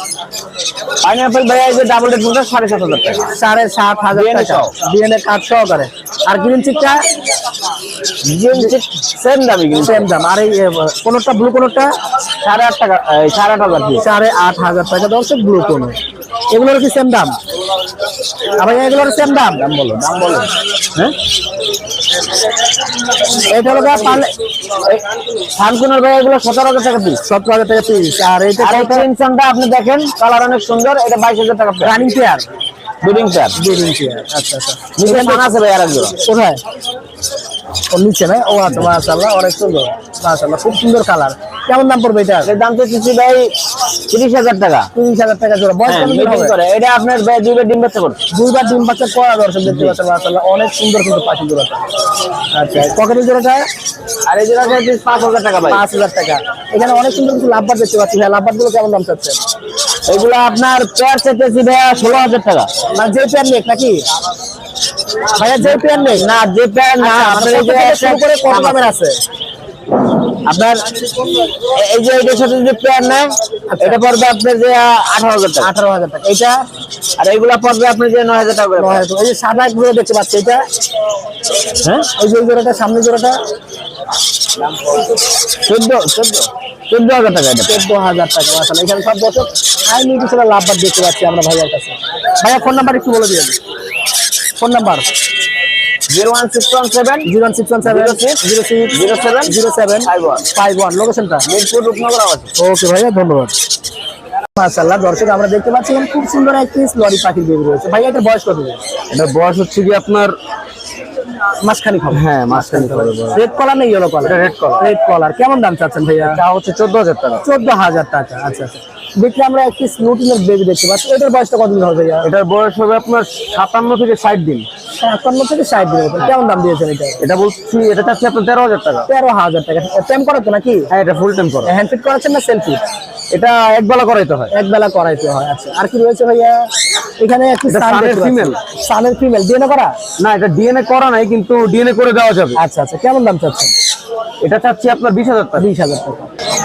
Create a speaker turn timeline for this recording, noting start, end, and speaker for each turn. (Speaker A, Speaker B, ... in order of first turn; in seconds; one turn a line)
Speaker A: 1.0-3.3
Speaker B: 3.3-7.0
Speaker A: 4.1-4.7
Speaker A: 8.2-10.1
Speaker B: 9.7-11.9
Speaker A: 12.4-14.0
Speaker B: 14.0-16.0
Speaker B: 16.5-17.4
Speaker B: 18.6-19.7
Speaker A: 19.6-21.1
Speaker B: 23.4-24.3
Speaker A: 23.8-24.2
Speaker A: 24.8-27.2
Speaker B: 27.2-29.1
Speaker A: 28.6-31.9
Speaker B: 31.8-32.5
Speaker A: 33.0-33.5
Speaker B: 33.6-35.5
Speaker A: 35.0-36.2
Speaker B: 36.2-36.6
Speaker B: 37.9-42.5
Speaker A: 42.4-43.5
Speaker A: 44.1-44.9
Speaker B: 44.9-46.5
Speaker A: 45.9-48.2
Speaker B: 48.3-51.8
Speaker A: 49.7-50.0
Speaker B: 52.5-53.7
Speaker A: 54.3-55.8
Speaker B: 55.7-59.4
Speaker A: 60.1-62.7
Speaker B: 62.9-64.0
Speaker B: 65.3-66.3
Speaker A: 65.6-68.9
Speaker B: 67.0-69.2
Speaker A: 70.5-70.8
Speaker A: 71.6-75.7
Speaker B: 73.7-74.0
Speaker B: 75.6-76.6
Speaker A: 77.2-79.0
Speaker B: 78.8-80.6
Speaker B: 82.1-83.4
Speaker A: 85.6-87.8
Speaker B: 87.7-93.6
Speaker B: 94.6-95.1
Speaker A: 96.1-97.3
Speaker B: 97.2-101.5
Speaker A: 97.8-98.4
Speaker A: 98.9-100.5
Speaker A: 101.5-102.5
Speaker B: 102.6-103.5
Speaker B: 104.5-108.8
Speaker A: 109.1-110.3
Speaker B: 111.6-116.4
Speaker A: 112.1-113.4
Speaker A: 114.2-114.8
Speaker A: 116.3-117.4
Speaker B: 117.4-122.3
Speaker A: 122.2-124.7
Speaker B: 125.0-127.2
Speaker A: 127.2-129.1
Speaker B: 129.1-130.9
Speaker A: 130.9-131.7
Speaker B: 131.7-132.8
Speaker A: 133.3-134.5
Speaker B: 134.5-136.7
Speaker B: 137.2-140.0
Speaker A: 137.7-138.6
Speaker A: 140.2-142.5
Speaker B: 142.6-143.7
Speaker A: 144.4-145.7
Speaker B: 145.6-146.3